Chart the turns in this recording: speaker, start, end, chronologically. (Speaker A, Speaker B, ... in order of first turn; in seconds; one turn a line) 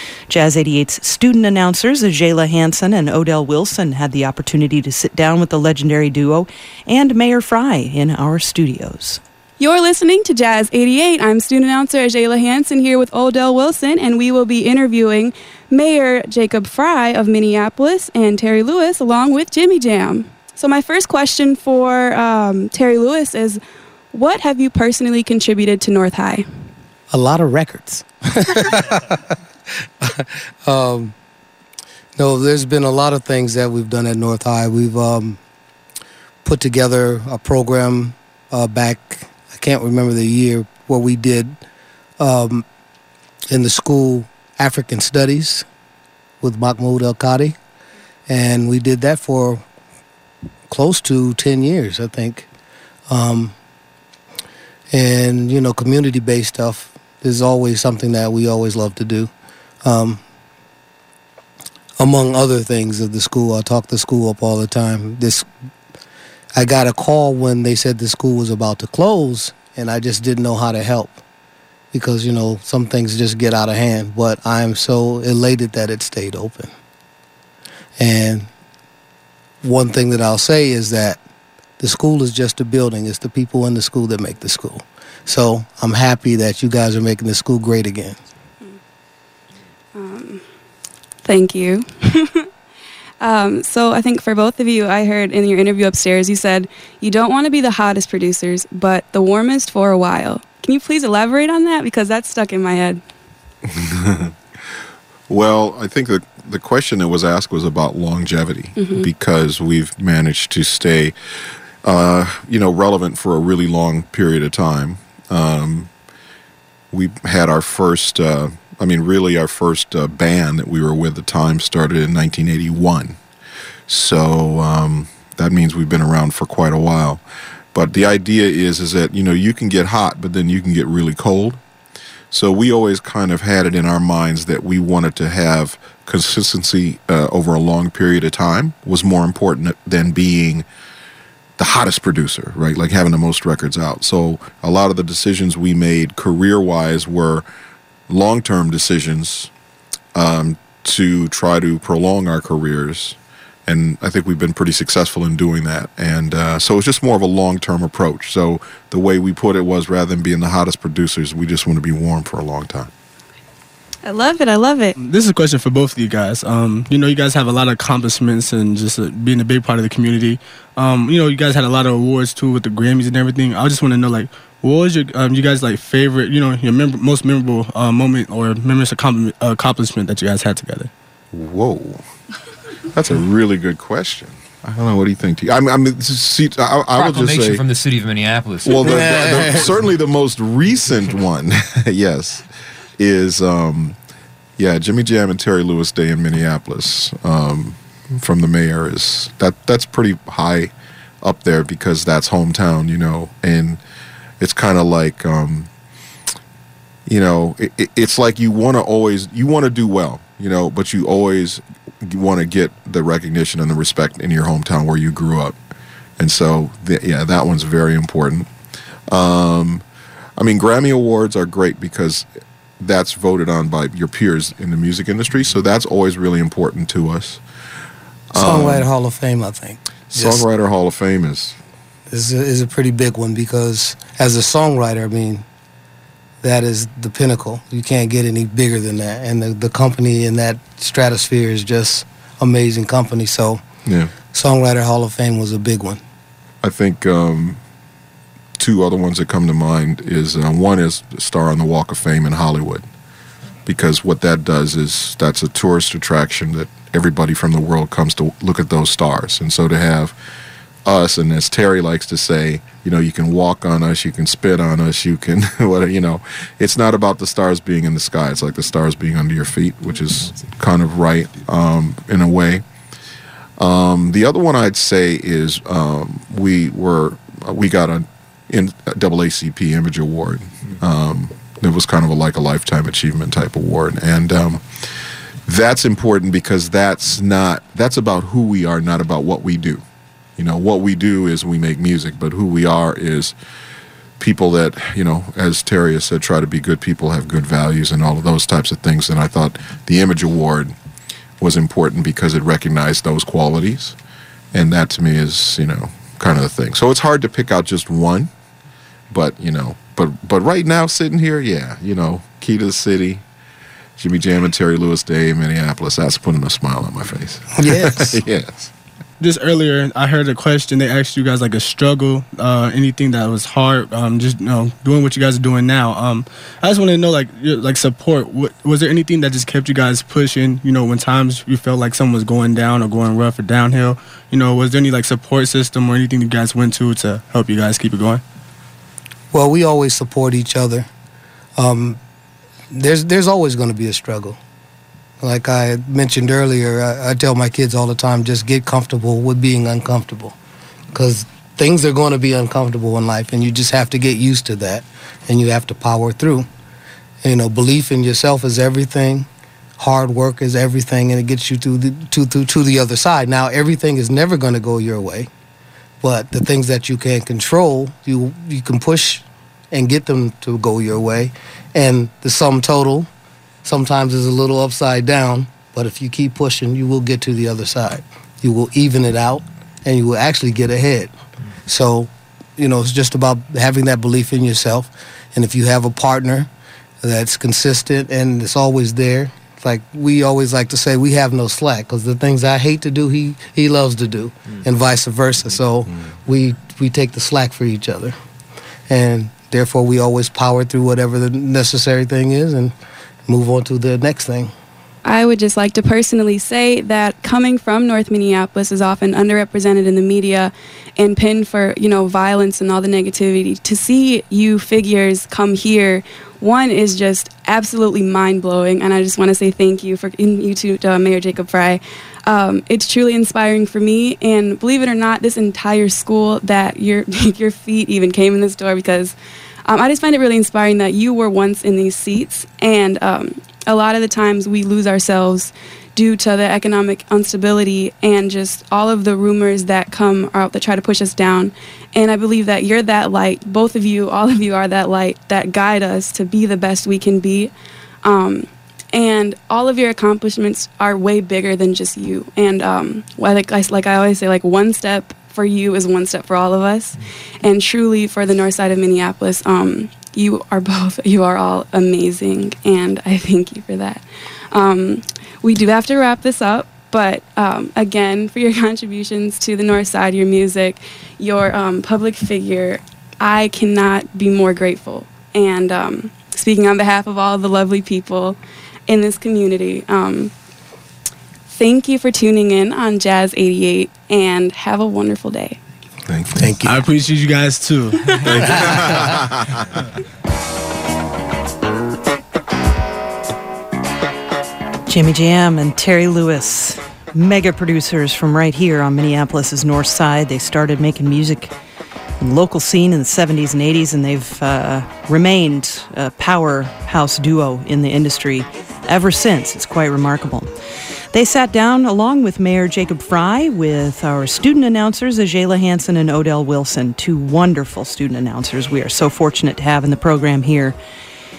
Speaker A: 0.3-9.2
Speaker B: 9.6-23.6
Speaker B: 24.1-26.4
Speaker C: 27.1-29.3
Speaker C: 30.0-31.1
Speaker C: 32.1-35.4
Speaker C: 36.4-41.6
Speaker C: 42.2-42.6
Speaker C: 43.5-45.7
Speaker C: 46.4-47.5
Speaker C: 48.3-49.6
Speaker C: 50.7-52.5
Speaker C: 53.1-53.5
Speaker C: 54.9-59.3
Speaker C: 59.8-60.2
Speaker C: 62.0-65.5
Speaker C: 66.5-71.2
Speaker C: 71.9-76.7
Speaker C: 78.0-78.5
Speaker C: 79.6-81.2
Speaker C: 81.8-88.2
Speaker B: 89.9-90.4
Speaker B: 91.2-92.5
Speaker B: 93.2-103.0
Speaker D: 103.7-104.3
Speaker D: 105.3-111.1
Speaker B: 108.8-109.1
Speaker D: 111.8-115.9
Speaker D: 116.9-123.2
Speaker D: 123.9-127.2
Speaker D: 127.7-131.6
Speaker D: 132.3-140.7
Speaker D: 141.6-147.4
Speaker D: 148.1-149.5
Speaker D: 150.1-162.9
Speaker B: 164.0-164.9
Speaker E: 165.0-180.9
Speaker D: 181.3-182.0
Speaker D: 182.9-187.6
Speaker F: 186.9-189.9
Speaker D: 188.7-192.4
Speaker C: 189.1-189.4
Speaker D: 193.0-193.9
Speaker D: 194.6-203.8
Speaker D: 204.4-205.7
Speaker D: 207.1-215.5
Speaker D: 216.2-218.5
Speaker D: 219.1-219.8
Speaker D: 220.4-222.2
Speaker D: 222.8-227.4
Speaker D: 228.3-228.9
Speaker C: 228.3-230.4
Speaker D: 230.1-231.6
Speaker C: 232.1-235.4
Speaker C: 236.4-243.6
Speaker D: 243.8-244.1
Speaker C: 244.3-246.0
Speaker D: 246.6-247.6
Speaker D: 248.6-252.8
Speaker D: 253.7-260.1
Speaker D: 260.9-272.6
Speaker D: 273.6-289.8
Speaker D: 290.4-293.4
Speaker D: 294.2-300.7
Speaker D: 301.4-303.9
Speaker D: 304.5-308.3
Speaker D: 309.1-313.2
Speaker D: 314.0-318.7
Speaker C: 317.6-318.2
Speaker E: 319.2-338.2
Speaker C: 339.3-340.9
Speaker C: 341.6-342.0
Speaker C: 342.7-344.4
Speaker C: 345.2-350.3
Speaker C: 350.9-356.5
Speaker C: 357.2-359.3
Speaker C: 359.8-365.3
Speaker C: 366.0-373.1
Speaker C: 373.6-381.1
Speaker C: 381.7-386.5
Speaker C: 387.0-398.1
Speaker C: 398.9-402.7
Speaker C: 403.3-404.5
Speaker B: 405.0-429.1
Speaker B: 429.6-447.5
Speaker B: 448.0-480.3
Speaker B: 481.5-485.6
Speaker D: 486.1-486.5
Speaker C: 486.3-486.8
Speaker E: 486.6-488.1
Speaker D: 488.1-489.8
Speaker E: 488.7-489.0
Speaker A: 494.9-501.5
Speaker A: 502.2-510.5
Speaker A: 511.1-520.8